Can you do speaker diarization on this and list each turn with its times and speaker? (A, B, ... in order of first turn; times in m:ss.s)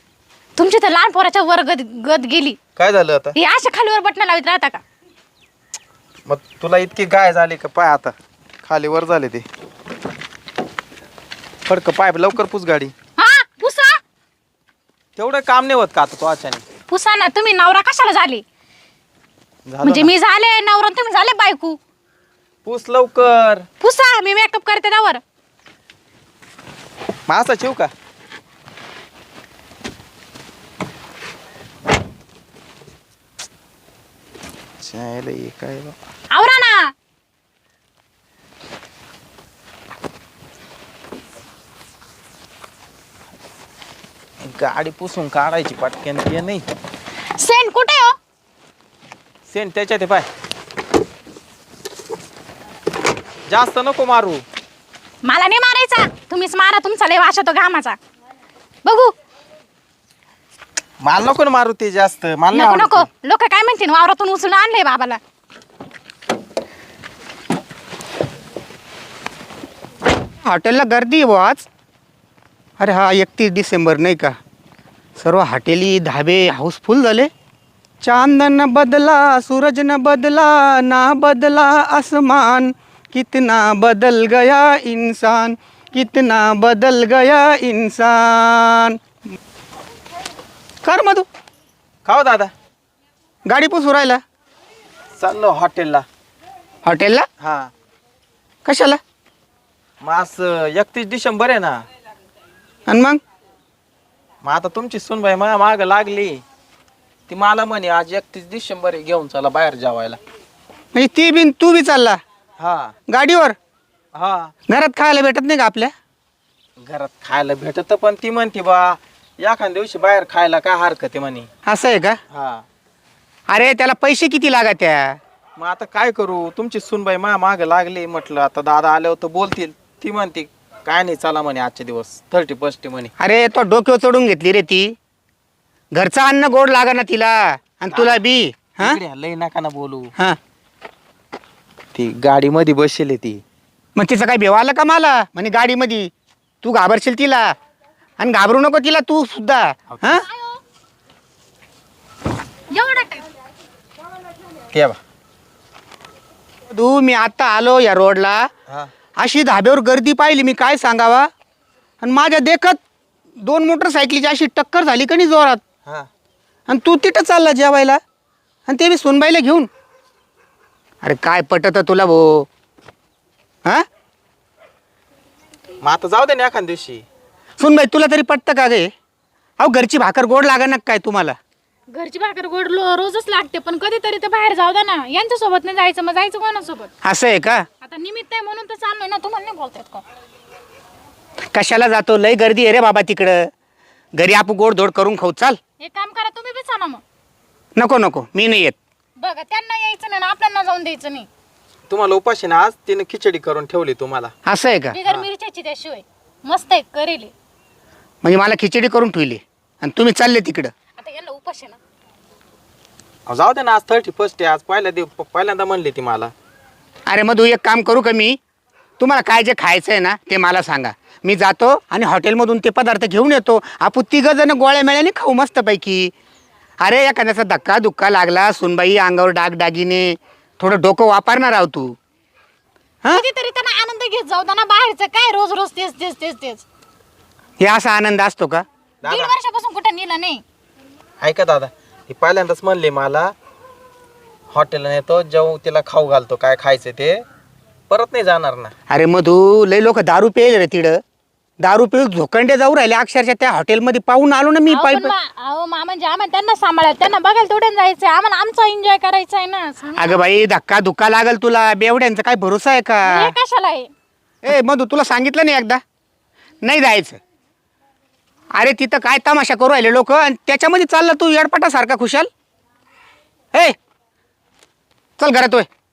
0:00.6-0:02.6 A
0:02.8-0:03.3 B
0:03.3-0:04.8 A
0:06.2-0:09.4 B
0:11.6-0:12.9 B
0:13.2-0:14.0 A
0:15.2-0:16.6 B
0:16.9-0:18.4 A
0:19.6-0:20.1 B
0:19.8-0:21.8 A
0:22.6-0:23.7 B
0:23.8-0:25.2 A
0:27.3-0:27.9 B
0:34.8-0:36.0 B
0:36.3-0:36.9 A
0:44.4-0:46.6 B
0:47.3-0:48.2 A
0:49.5-0:50.3 B
0:53.5-0:54.4 B
0:55.2-0:58.0 A
0:58.8-0:59.1 A
1:01.0-1:03.1 B
1:02.5-1:05.2 A
1:10.4-1:11.6 C
1:12.8-1:14.3 C
1:15.2-1:17.3 C
1:18.0-1:29.0 C
1:30.8-1:31.3 C
1:32.0-1:32.5 B
1:33.4-1:34.2 C
1:35.2-1:36.0 B
1:36.8-1:37.2 C
1:37.4-1:37.7 B
1:38.6-1:39.0 C
1:40.0-1:41.8 B
1:42.9-1:43.2 C
1:44.4-1:46.4 B
1:47.3-1:50.2 B
1:50.9-1:52.2 C
1:52.6-1:52.9 B
1:53.1-1:53.6 C
1:54.1-1:54.5 B
1:54.7-1:55.9 C
1:56.8-2:01.5 B
2:01.6-2:02.2 C
2:02.3-2:02.6 B
2:03.5-2:05.2 C
2:05.6-2:13.1 B
2:13.2-2:14.9 C
2:15.9-2:19.0 C
2:17.9-2:18.2 B
2:18.8-2:20.1 B
2:21.9-2:23.4 B
2:24.0-2:26.1 C
2:26.6-2:27.5 C
2:28.2-2:30.2 C
2:29.9-2:30.2 B
2:30.1-2:30.6 A
2:32.7-2:33.3 A
2:34.7-2:35.0 B
2:36.7-2:38.5 C
2:39.2-2:41.3 C
2:42.0-2:42.8 C
2:43.4-2:45.6 C
2:46.7-2:48.0 C
2:48.7-2:49.7 C
2:51.0-2:52.5 C
2:55.8-2:57.0 B
2:57.6-2:58.9 C
2:59.6-3:01.4 C
3:01.9-3:06.9 A
3:07.0-3:07.6 C
3:07.8-3:10.0 A
3:11.5-3:13.5 C
3:14.2-3:15.6 C
3:15.8-3:17.0 A
3:17.8-3:18.8 C
3:19.2-3:21.3 A
3:21.9-3:24.3 B
3:24.4-3:25.0 C
3:24.9-3:27.3 A
3:28.2-3:30.7 C
3:31.0-3:31.8 A
3:33.3-3:36.3 B
3:37.1-3:38.4 C
3:39.0-3:46.1 C
3:46.8-3:52.0 C
3:53.1-3:56.6 A
3:57.6-3:58.6 C
3:59.0-3:59.3 B
3:59.0-4:00.4 A
4:01.2-4:03.3 B
4:04.5-4:07.2 B
4:07.9-4:08.7 B
4:08.9-4:11.0 C
4:11.6-4:15.1 C
4:14.7-4:20.2 A
4:20.0-4:23.3 C
4:23.0-4:23.9 A
4:24.4-4:25.8 C
4:26.6-4:27.2 C
4:28.5-4:32.3 C
4:35.2-4:35.7 C